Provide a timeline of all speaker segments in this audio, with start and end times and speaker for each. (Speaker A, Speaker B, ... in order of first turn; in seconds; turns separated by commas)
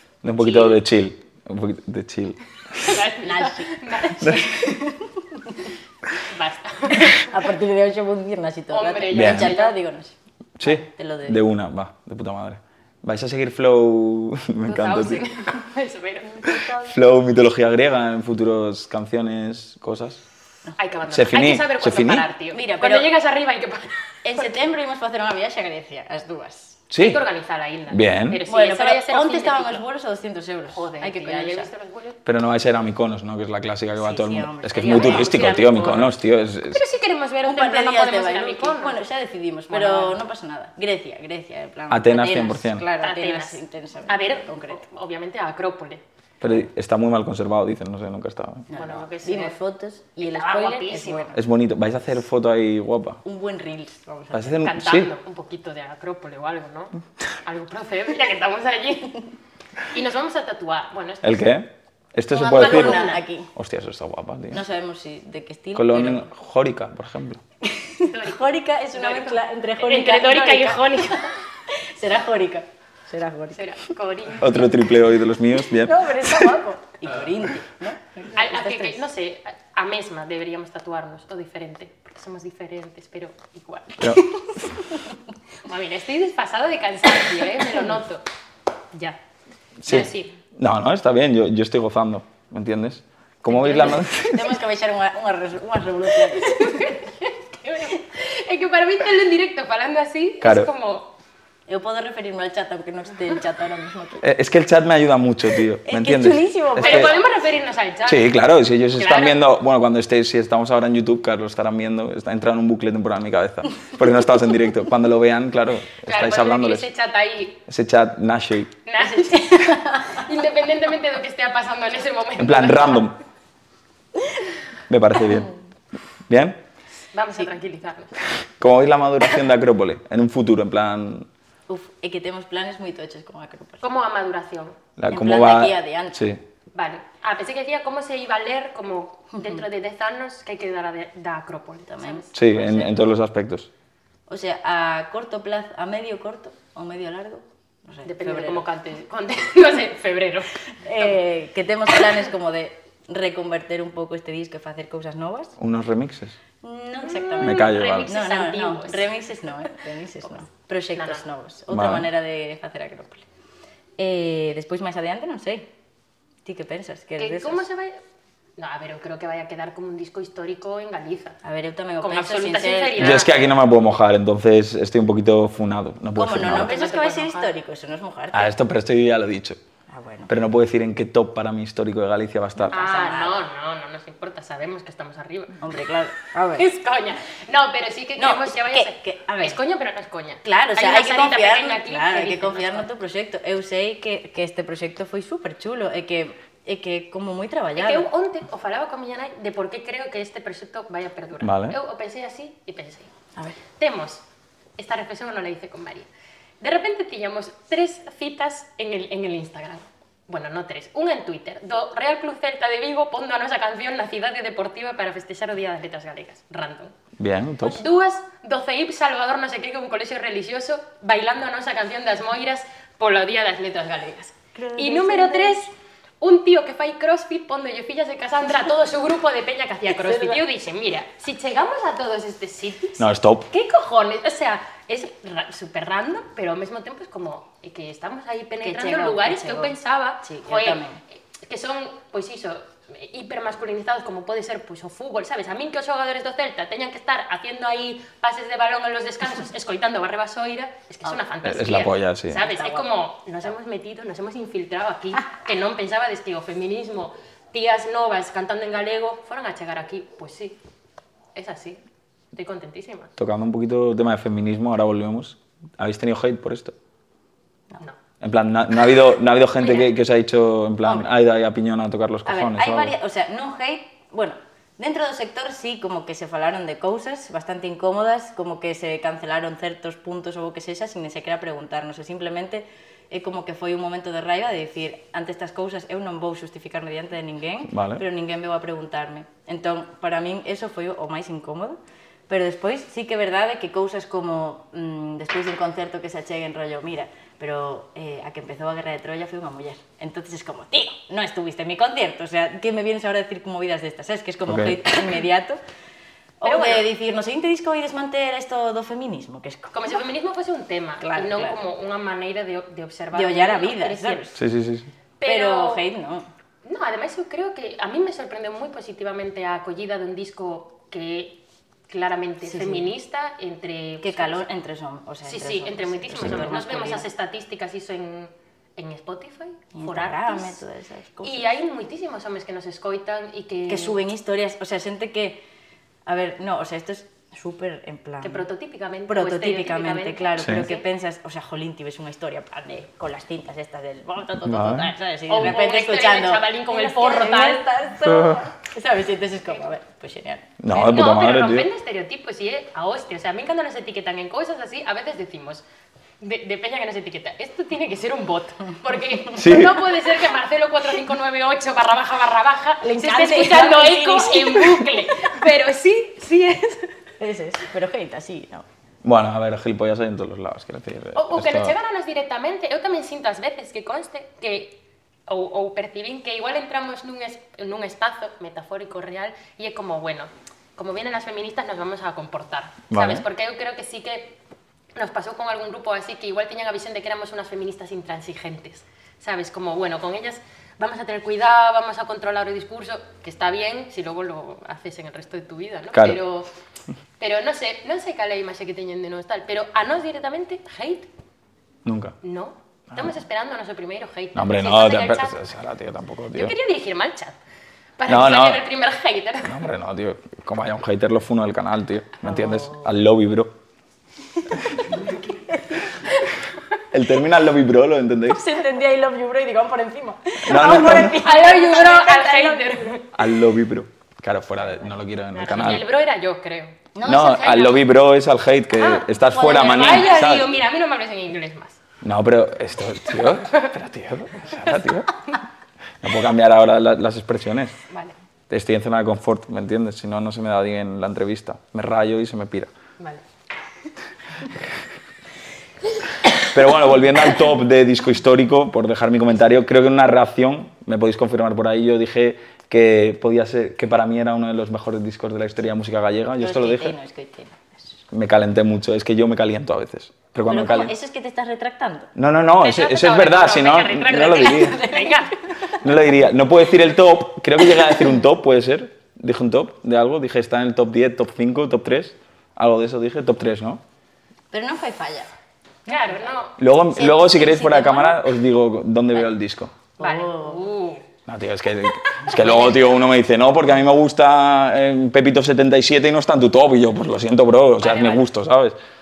Speaker A: 0.2-3.0, Speaker B: 0.4-0.8, Speaker B: 2.8-4.4, Speaker C: 3.2-5.7, Speaker A: 4.2-4.5, Speaker B: 6.2-7.3, Speaker C: 6.9-11.4, Speaker B: 8.7-9.8, Speaker A: 9.1-9.5, Speaker A: 10.6-15.2, Speaker B: 14.6-16.6, Speaker A: 16.5-20.2, Speaker B: 20.8-24.6, Speaker A: 21.1-22.3, Speaker C: 22.5-23.1, Speaker C: 24.2-26.8, Speaker A: 26.9-27.2, Speaker B: 27.0-29.8, Speaker A: 27.9-28.4, Speaker C: 28.5-31.7, Speaker B: 30.7-32.2, Speaker A: 32.2-36.8, Speaker C: 34.0-35.4, Speaker B: 34.8-36.1, Speaker B: 36.7-39.0, Speaker C: 37.4-44.8, Speaker B: 39.7-40.2, Speaker A: 41.9-42.9, Speaker B: 43.0-46.0, Speaker A: 46.4-48.7, Speaker C: 48.7-51.4, Speaker B: 48.7-49.6, Speaker B: 50.2-51.3, Speaker A: 51.3-53.2, Speaker C: 53.2-54.6, Speaker A: 54.3-55.1, Speaker B: 54.5-59.2, Speaker B: 59.9-61.5, Speaker A: 61.2-64.6, Speaker C: 62.3-63.5, Speaker B: 62.4-63.2, Speaker C: 64.5-66.3, Speaker A: 65.7-67.4, Speaker C: 67.6-73.6, Speaker B: 68.0-71.3, Speaker B: 73.5-74.8, Speaker A: 74.3-76.5, Speaker C: 75.8-79.0, Speaker B: 78.3-84.0, Speaker B: 85.7-88.2, Speaker A: 89.8-94.6, Speaker B: 89.8-90.3, Speaker B: 93.5-94.0, Speaker C: 93.5-97.0, Speaker B: 96.4-101.1, Speaker A: 100.4-100.7, Speaker C: 101.7-104.2, Speaker A: 104.2-107.2, Speaker C: 105.8-107.2, Speaker B: 106.8-108.3, Speaker A: 108.0-116.9, Speaker B: 108.9-109.4, Speaker B: 116.0-117.6, Speaker A: 117.7-118.7, Speaker B: 118.8-123.1, Speaker C: 119.3-120.2, Speaker A: 122.4-123.2, Speaker A: 124.9-125.5, Speaker A: 126.3-126.6, Speaker B: 127.1-128.2, Speaker A: 128.6-131.3, Speaker C: 131.7-133.8, Speaker B: 133.8-134.8, Speaker A: 135.0-136.4, Speaker C: 135.1-136.3, Speaker B: 136.7-142.9, Speaker C: 139.3-139.6, Speaker C: 141.9-142.2, Speaker A: 142.3-143.7, Speaker C: 144.3-148.6, Speaker B: 148.0-151.2, Speaker C: 150.8-155.6, Speaker A: 155.6-156.4, Speaker C: 156.6-163.2, Speaker B: 157.0-159.1, Speaker A: 157.4-158.1, Speaker B: 160.9-161.2, Speaker A: 161.7-162.1, Speaker C: 164.0-165.7, Speaker C: 166.4-167.6, Speaker B: 167.2-168.0, Speaker B: 168.6-171.4, Speaker C: 171.4-173.3, Speaker B: 172.0-173.4, Speaker A: 173.0-176.7, Speaker C: 176.2-178.5, Speaker B: 176.4-177.5, Speaker A: 178.3-179.6, Speaker C: 179.9-180.3, Speaker A: 180.3-182.8, Speaker C: 182.6-183.4, Speaker B: 182.7-185.6, Speaker C: 185.6-186.7, Speaker B: 186.6-192.9, Speaker C: 188.2-189.6, Speaker C: 190.4-198.1, Speaker B: 197.8-203.1, Speaker A: 201.4-201.8, Speaker B: 203.8-204.2, Speaker B: 204.8-206.1, Speaker B: 206.6-216.9, Speaker A: 217.2-217.8, Speaker B: 217.6-240.8, Speaker C: 224.5-225.6, Speaker C: 229.9-230.4, Speaker A: 233.0-233.5, Speaker C: 238.6-241.0, Speaker B: 241.3-260.6, Speaker A: 251.4-252.4, Speaker C: 252.4-252.9, Speaker B: 261.3-261.8, Speaker B: 262.3-263.1, Speaker A: 263.2-266.7, Speaker A: 268.2-272.9, Speaker C: 270.8-271.1, Speaker C: 272.2-305.6, Speaker A: 287.7-288.0, Speaker A: 304.5-304.8, Speaker C: 306.4-310.0, Speaker B: 306.4-306.9, Speaker B: 309.7-314.3, Speaker C: 311.0-311.6, Speaker C: 313.1-314.4, Speaker A: 314.4-314.9, Speaker B: 315.2-315.8, Speaker C: 315.2-316.3, Speaker B: 316.6-324.4, Speaker C: 322.4-322.9, Speaker C: 324.0-327.0, Speaker B: 325.2-330.6, Speaker A: 326.2-326.5, Speaker C: 329.7-331.5, Speaker B: 331.2-334.0, Speaker C: 333.7-335.4, Speaker C: 336.1-338.4, Speaker B: 338.2-340.8, Speaker C: 339.1-350.9, Speaker A: 340.4-340.6, Speaker A: 344.4-344.9, Speaker B: 345.3-347.7, Speaker A: 348.1-348.4, Speaker A: 350.6-351.7, Speaker B: 350.7-355.6, Speaker B: 356.2-366.9, Speaker A: 359.3-359.8, Speaker C: 362.8-365.3, Speaker C: 367.2-368.6, Speaker A: 369.0-371.7, Speaker B: 371.1-384.3, Speaker A: 382.9-383.2, Speaker B: 384.9-396.5, Speaker A: 395.9-396.2, Speaker B: 397.2-401.1, Speaker A: 401.8-402.1, Speaker B: 402.2-405.4, Speaker A: 402.9-403.2, Speaker A: 404.3-406.5, Speaker B: 406.3-407.4, Speaker B: 408.0-409.6, Speaker A: 408.1-408.6, Speaker A: 409.4-413.5, Speaker C: 412.2-412.9, Speaker C: 414.7-416.0, Speaker A: 416.9-418.4, Speaker C: 418.3-423.0, Speaker A: 420.4-421.2, Speaker B: 420.6-423.1, Speaker A: 423.1-425.8, Speaker B: 425.3-427.8, Speaker C: 426.9-427.6, Speaker A: 427.0-430.5, Speaker B: 428.8-431.8, Speaker C: 429.1-430.5, Speaker A: 432.0-435.1, Speaker A: 436.0-437.8, Speaker B: 437.9-438.1, Speaker A: 438.5-442.7, Speaker B: 443.0-443.2, Speaker A: 446.5-456.9, Speaker C: 456.4-458.0, Speaker A: 458.1-460.9, Speaker C: 460.5-462.1, Speaker A: 462.1-464.8, Speaker B: 462.6-465.3, Speaker C: 464.7-465.3, Speaker A: 465.8-473.8, Speaker C: 474.5-475.3, Speaker C: 475.9-476.4, Speaker B: 475.9-476.5, Speaker A: 476.6-479.7, Speaker C: 476.9-478.2, Speaker C: 480.0-480.7, Speaker B: 480.0-481.0, Speaker A: 481.3-488.8, Speaker B: 482.3-482.8, Speaker B: 487.8-488.2